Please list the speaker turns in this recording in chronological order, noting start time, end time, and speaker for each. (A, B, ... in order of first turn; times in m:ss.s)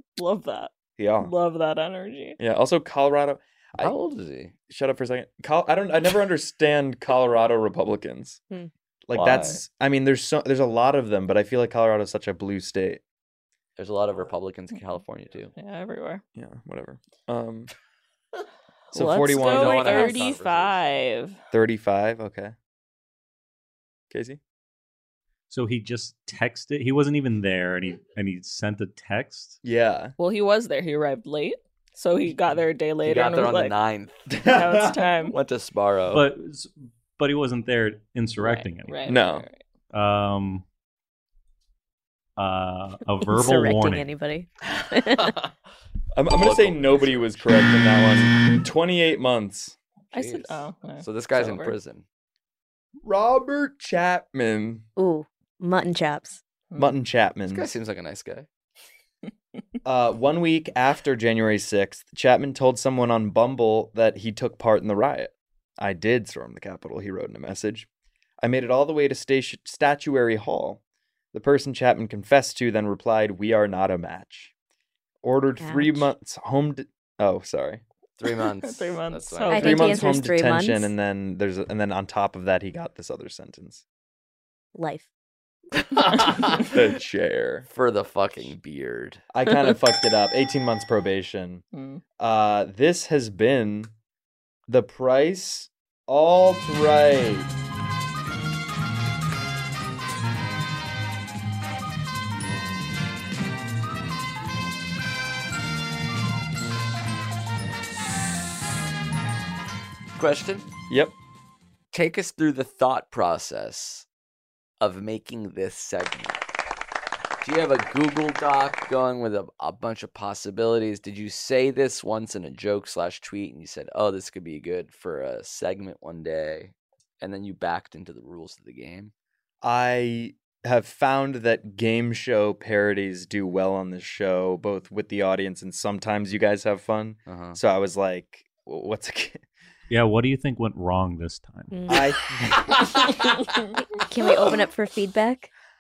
0:00.2-0:02.4 A
0:01.0-0:01.3 B
0:02.4-0:03.9 B
0:03.8-0:04.5 C
0:04.7-0:08.4 B
0:09.1-0:13.0 B
0:09.1-0:09.6 C
0:13.8-0:15.5 C
0:15.6-0:16.2 A
0:16.4-0:17.7 B
0:18.9-0:21.4 A
0:18.9-0:20.1 B
0:19.3-0:21.0 C
0:19.9-0:20.2 D
0:21.5-0:22.6 B
0:24.1-0:24.4 B
0:25.5-0:29.6 E
0:29.6-0:30.2 B
0:30.2-0:33.8 A
0:33.0-0:34.3 C
0:34.3-0:34.9 B
0:34.4-0:35.4 A
0:35.3-0:36.2 C
0:36.1-0:39.2 E
0:38.4-0:39.6 A
0:39.1-0:39.5 B
0:39.9-0:40.6 E
0:42.4-0:44.1 E
0:43.2-0:45.4 D
0:44.8-0:45.5 C
0:46.2-0:49.8 B
0:46.3-0:47.5 C
0:50.1-0:52.0 C
0:50.1-0:51.8 A
0:53.0-0:54.8 B
0:55.0-0:56.4 D
0:56.8-0:57.7 B
0:57.5-0:58.5 C
0:59.8-1:07.9 B
1:08.4-1:10.8 B
1:11.3-1:14.5 B
1:15.2-1:17.8 B
1:15.6-1:16.1 D
1:18.2-1:19.9 C
1:18.2-1:19.9 A
1:19.5-1:21.0 D
1:19.6-1:23.8 B
1:24.8-1:25.1 D
1:26.6-1:27.7 B
1:27.7-1:29.2 C
1:29.3-1:31.6 B
1:31.7-1:32.0 A
1:32.2-1:33.9 B
1:34.7-1:37.5 B
1:50.2-1:50.7 C
1:51.9-1:54.1 C
1:54.8-1:56.4 C
1:57.4-2:09.1 C
2:09.6-2:19.4 B
2:17.3-2:17.6 C
2:19.9-2:22.0 E
2:21.7-2:22.0 D
2:21.9-2:23.4 B
2:24.0-2:25.5 D
2:24.0-2:24.4 B